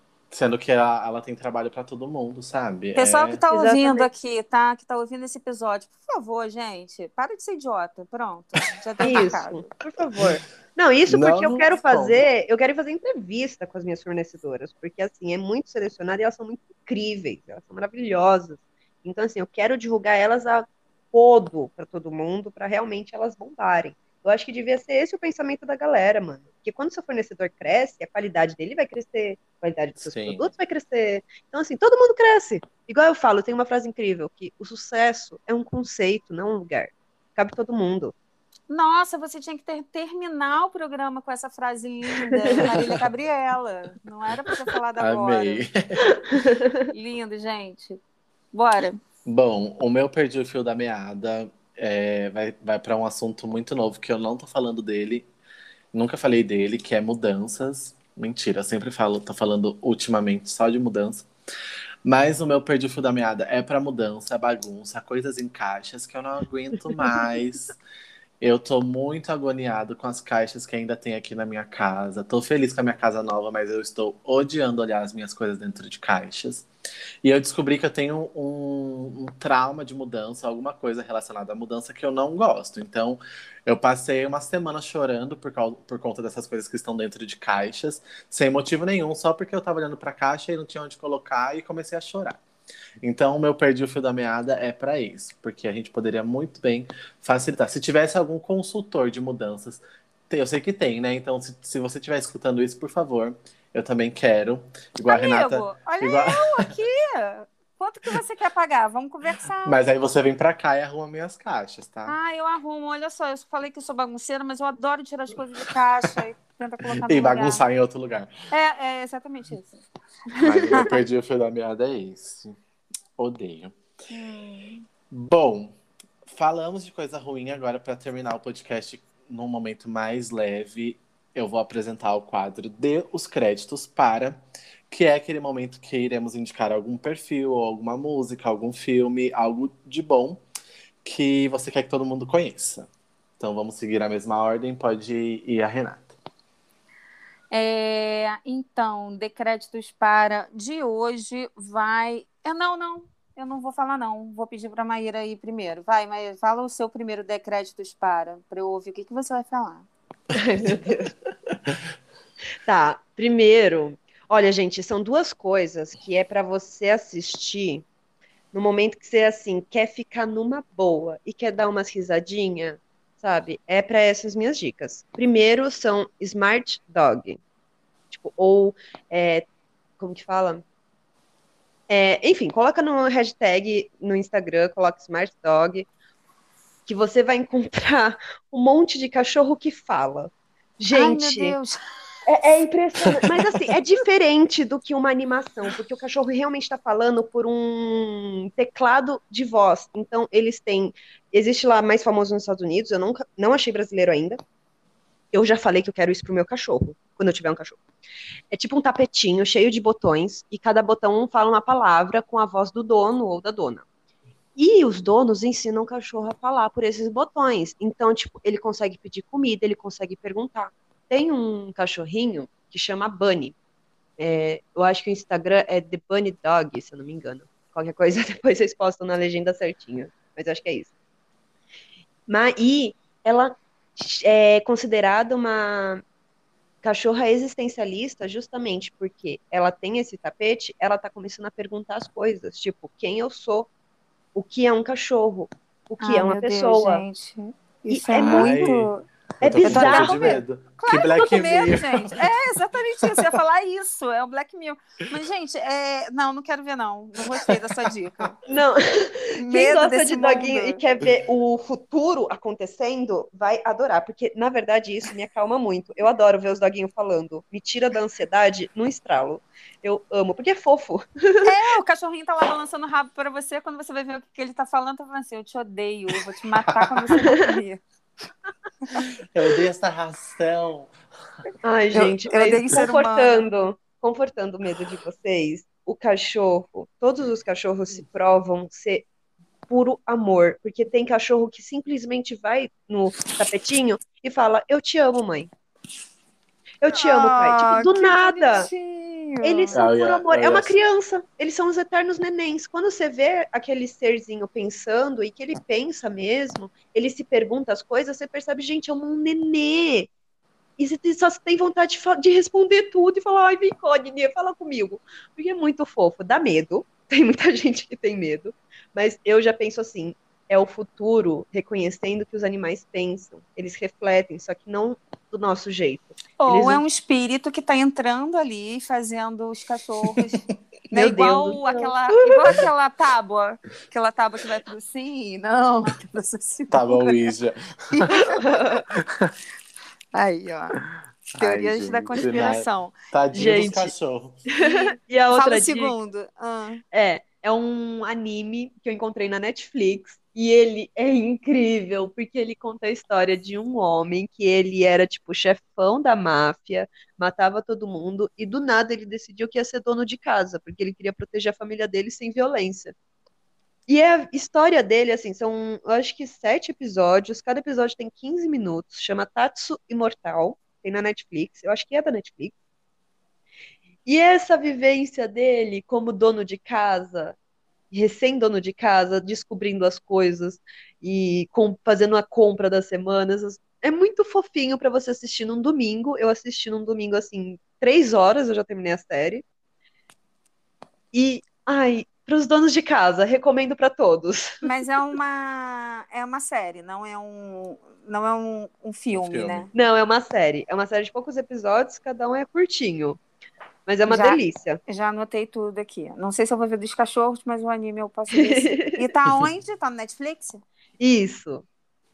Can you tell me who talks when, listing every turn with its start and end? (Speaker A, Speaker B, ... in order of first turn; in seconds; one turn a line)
Speaker A: 0.3-3.4
Speaker B: 3.0-9.7
Speaker C: 3.5-4.1
Speaker C: 9.0-38.1
Speaker A: 11.1-12.2
Speaker A: 30.0-30.5
Speaker B: 38.7-45.6
Speaker C: 42.2-42.6
Speaker A: 45.0-46.1
Speaker C: 46.3-46.9
Speaker B: 46.9-48.0
Speaker B: 48.5-49.0
Speaker A: 49.2-55.3
Speaker A: 55.9-61.3
Speaker A: 62.0-67.8
Speaker A: 68.4-76.7
Speaker A: 77.2-92.4
Speaker A: 93.0-106.7
Speaker B: 105.1-109.8
Speaker A: 109.6-112.1
Speaker B: 112.1-117.6
Speaker A: 117.0-118.3
Speaker B: 118.5-119.8
Speaker C: 120.3-120.7
Speaker A: 120.4-122.6
Speaker A: 123.2-123.8
Speaker B: 124.1-124.9
Speaker A: 125.1-125.8
Speaker A: 126.3-140.4
Speaker A: 141.0-146.1
Speaker B: 147.5-159.9
Speaker C: 160.3-161.1
Speaker C: 162.7-167.9
Speaker C: 168.5-177.4
Speaker C: 178.1-179.5
Speaker C: 180.0-180.6
Speaker C: 181.9-185.9
Speaker C: 186.9-191.6
Speaker B: 190.9-191.8
Speaker C: 192.3-204.4
Speaker C: 205.3-207.8
Speaker C: 208.5-213.8
Speaker C: 214.6-223.6
Speaker C: 224.2-230.9
Speaker C: 232.3-236.0
Speaker C: 236.8-243.7
Speaker C: 244.3-247.0
Speaker B: 246.0-249.1
Speaker C: 247.9-248.8
Speaker A: 248.1-248.9
Speaker A: 249.4-252.2
Speaker C: 249.4-250.4
Speaker B: 249.7-258.4
Speaker C: 258.5-271.5
Speaker B: 259.4-260.8
Speaker B: 271.4-277.8
Speaker A: 279.0-280.9
Speaker C: 281.6-289.1
Speaker B: 281.9-283.5
Speaker C: 289.7-295.5
Speaker C: 296.8-298.7
Speaker B: 296.9-299.8
Speaker C: 299.4-310.1
Speaker A: 299.7-300.7
Speaker C: 310.8-326.8
Speaker B: 326.4-337.3
Speaker C: 330.9-332.6
Speaker A: 336.7-338.2
Speaker B: 337.9-338.8
Speaker C: 338.2-338.8
Speaker A: 338.9-339.3
Speaker B: 340.1-340.9
Speaker A: 341.3-344.4
Speaker B: 341.4-343.7
Speaker C: 342.2-342.5
Speaker C: 343.3-343.9
Speaker C: 344.5-345.9
Speaker B: 344.6-346.8
Speaker C: 346.9-362.9
Speaker C: 363.9-372.5
Speaker C: 374.1-377.4
Speaker C: 377.9-389.4
Speaker C: 391.1-394.6
Speaker B: 394.6-399.7
Speaker A: 399.1-399.7
Speaker C: 399.7-403.2
Speaker C: 403.9-404.8
Speaker B: 404.1-410.6
Speaker C: 408.3-409.1
Speaker C: 411.0-411.6